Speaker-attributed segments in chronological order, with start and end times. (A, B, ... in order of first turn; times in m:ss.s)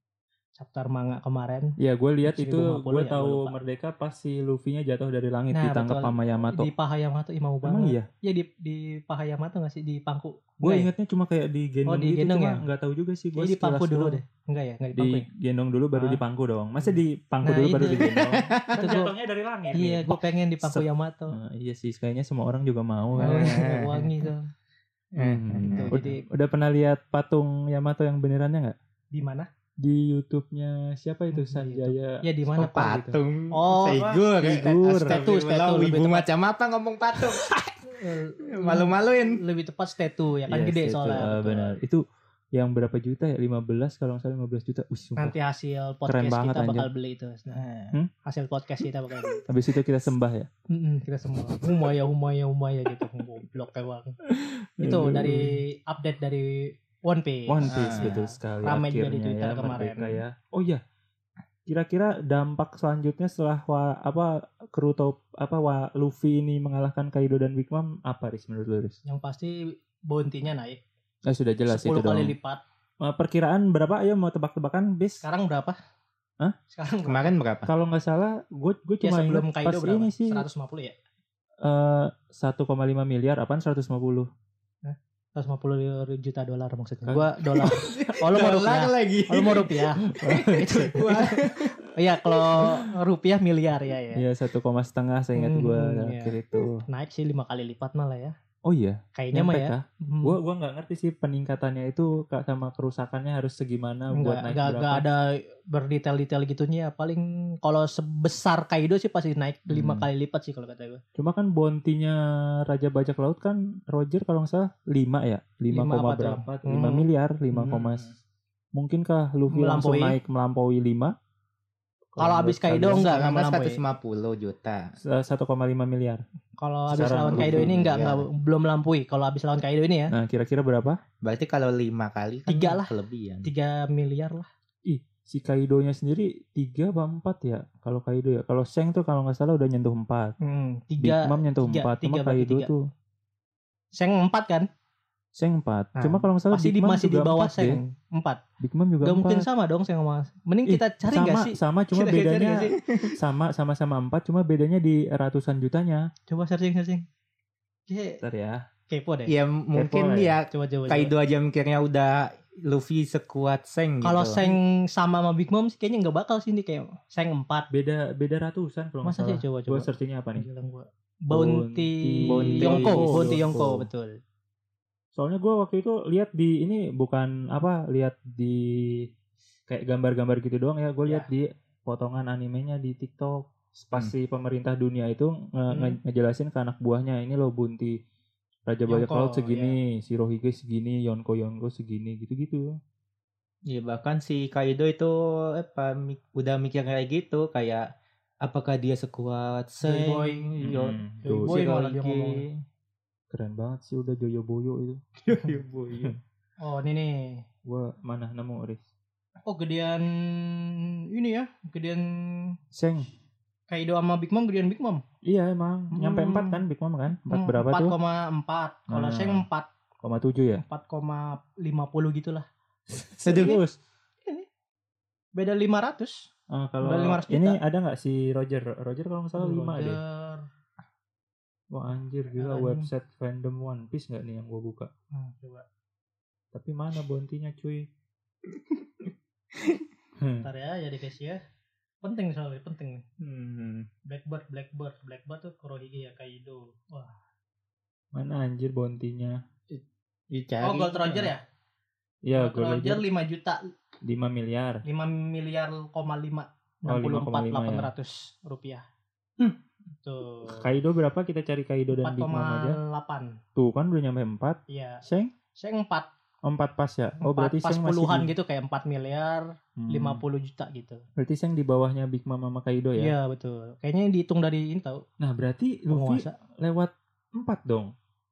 0:00.6-0:01.7 A
0:01.8-0:06.7 B
0:02.2-0:03.6 A
0:05.5-0:10.9 A
0:07.6-0:08.1 B
0:10.6-0:14.2 B
0:11.8-0:12.6 A
0:13.4-0:15.2 A
0:15.0-0:23.6 B
0:15.9-0:16.2 A
0:16.8-0:19.1 A
0:18.1-0:18.8 C
0:19.7-0:21.4 A
0:23.2-0:24.1 C
0:23.2-0:24.5 A
0:25.1-0:25.9 C
0:25.2-0:28.8 B
0:25.7-0:26.2 A
0:29.1-0:29.5 A
0:29.8-0:33.2 B
0:31.3-0:33.0 A
0:32.6-0:37.5 C
0:33.5-0:36.3 A
0:34.4-0:35.2 B
0:37.9-0:41.7 A
0:38.4-0:39.4 C
0:40.5-0:42.0 B
0:42.5-0:45.3 B
0:45.2-0:47.6 A
0:46.0-0:46.9 B
0:47.5-0:47.9 C
0:48.2-0:49.4 A
0:49.5-0:50.5 B
0:50.7-0:54.1 A
0:54.3-0:55.6 B
0:54.8-1:00.2 A
0:57.5-1:00.8 B
0:57.6-0:58.1 C
1:01.7-1:09.0 B
1:09.0-1:10.8 A
1:11.2-1:12.3 B
1:11.7-1:12.6 A
1:13.0-1:15.2 B
1:15.2-1:15.8 A
1:16.7-1:17.3 A
1:17.0-1:17.7 C
1:17.7-1:20.4 B
1:19.0-1:20.9 A
1:21.6-1:24.3 B
1:24.8-1:34.2 A
1:27.6-1:32.7 C
1:30.1-1:30.9 B
1:34.1-1:36.8 B
1:35.4-1:36.3 A
1:36.9-1:38.3 A
1:38.6-1:45.0 B
1:39.1-1:40.3 A
1:44.1-1:51.0 A
1:49.7-1:50.0 B
1:51.2-1:58.1 B
1:55.7-1:57.0 A
1:57.6-1:58.1 C
1:58.7-2:01.1 B
1:59.5-2:00.2 A
2:02.1-2:03.1 B
2:02.2-2:03.8 A
2:03.0-2:04.9 C
2:05.0-2:06.2 B
2:06.6-2:10.1 A
2:06.9-2:07.9 B
2:07.3-2:08.2 C
2:10.1-2:11.0 B
2:11.2-2:13.5 C
2:12.5-2:12.9 A
2:13.4-2:14.5 A
2:14.8-2:20.3 B
2:20.4-2:22.7 A
2:21.0-2:22.8 B
2:24.0-2:24.7 A
2:25.3-2:27.8 B
2:26.0-2:28.4 A
2:28.6-2:29.4 B
2:29.0-2:32.7 A
2:30.6-2:36.1 B
2:32.9-2:33.1 C
2:36.3-2:37.0 A
2:37.9-2:38.2 A
2:38.2-2:38.6 B
2:38.9-2:39.3 A
2:39.3-2:44.4 C
2:39.7-2:40.4 B
2:40.5-2:41.1 A
2:44.0-2:47.7 A
2:47.7-2:50.4 B
2:49.0-2:54.2 A
2:51.3-2:53.8 B
2:52.2-2:53.6 C
2:55.1-2:59.1 B
2:59.7-3:08.0 B
3:05.7-3:06.0 A
3:08.6-3:12.8 B
3:08.9-3:09.8 A
3:13.7-3:17.9 C
3:18.4-3:22.6 C
3:19.8-3:20.6 A
3:20.6-3:21.5 B
3:21.2-3:22.4 A
3:23.3-3:25.0 B
3:25.3-3:26.1 C
3:26.6-3:27.4 A
3:27.6-3:28.8 B
3:29.4-3:32.6 A
3:32.7-3:33.1 B
3:33.7-3:35.0 A
3:35.2-3:37.9 B
3:35.9-3:36.6 A
3:37.3-3:39.7 A
3:38.9-3:39.4 B
3:40.0-3:40.6 B
3:40.6-3:42.4 A
3:42.9-3:43.8 B
3:43.2-3:43.6 C
3:45.4-3:46.3 A
3:46.5-3:50.0 B
3:46.8-3:47.6 A
3:49.4-3:50.5 A
3:51.7-3:54.9 B
3:52.4-3:52.9 A
3:55.1-3:55.6 A
3:56.5-3:57.9 B
4:00.2-4:00.4 B
4:00.4-4:01.4 A
4:02.0-4:03.0 A
4:03.2-4:03.9 C
4:04.0-4:07.2 A
4:08.1-4:09.4 B
4:09.7-4:11.3 C
4:10.6-4:11.4 A
4:12.2-4:13.0 B
4:12.4-4:13.6 A
4:14.0-4:14.8 B
4:14.8-4:18.8 A
4:16.9-4:17.9 B
4:20.0-4:20.7 A
4:20.5-4:22.8 B
4:21.9-4:23.4 A
4:23.6-4:25.3 B
4:24.7-4:25.0 A
4:25.6-4:26.1 A
4:26.4-4:28.3 B
4:27.2-4:31.0 A
4:29.8-4:30.2 B
4:31.2-4:33.1 B
4:33.0-4:35.0 A
4:35.2-4:37.9 B
4:35.9-4:36.3 A